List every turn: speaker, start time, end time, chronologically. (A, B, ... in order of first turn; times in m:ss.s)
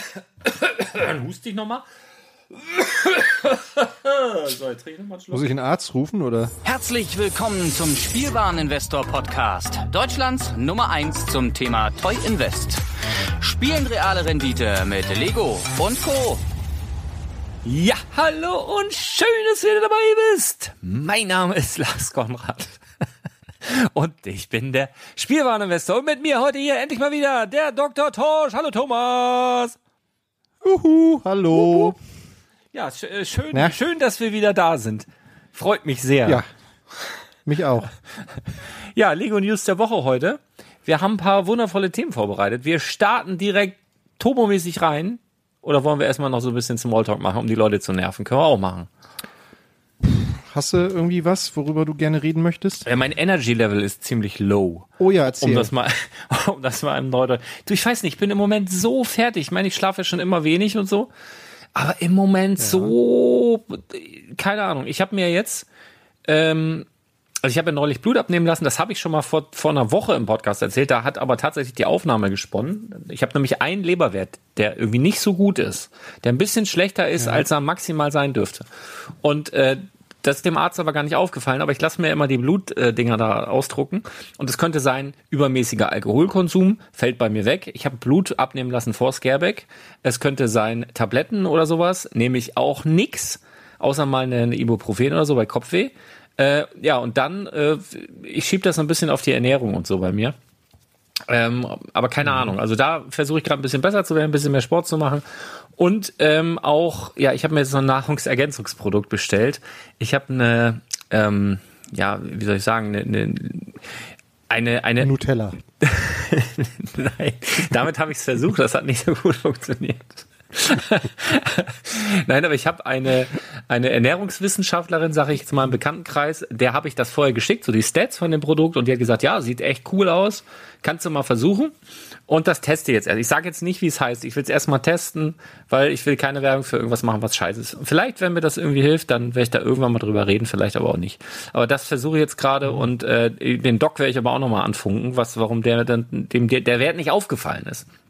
0:00.4-0:01.8 A
0:02.5-0:05.5 A
0:05.3-0:06.5 B
0:06.6-0:12.8 C
0:13.4-0:16.4 C
0:17.6-0:22.8 A
0:23.6-0:29.8 A
0:30.6-0:32.0 B
0:31.6-0:31.9 A
0:32.7-0:36.4 A
0:37.5-0:37.9 B
0:38.9-0:48.9 A
0:50.0-0:52.9 B
0:52.8-0:54.9 A
0:55.0-0:55.7 B
0:55.4-1:01.1 A
1:01.8-1:05.7 A
1:02.6-1:03.0 B
1:06.3-1:06.9 A
1:07.4-1:18.7 A
1:17.2-1:17.5 B
1:19.2-1:40.4 A
1:41.3-1:45.2 A
1:45.8-1:53.8 A
1:54.5-1:55.1 A
1:55.0-1:55.6 B
1:55.8-2:11.7 A
2:12.3-2:27.9 A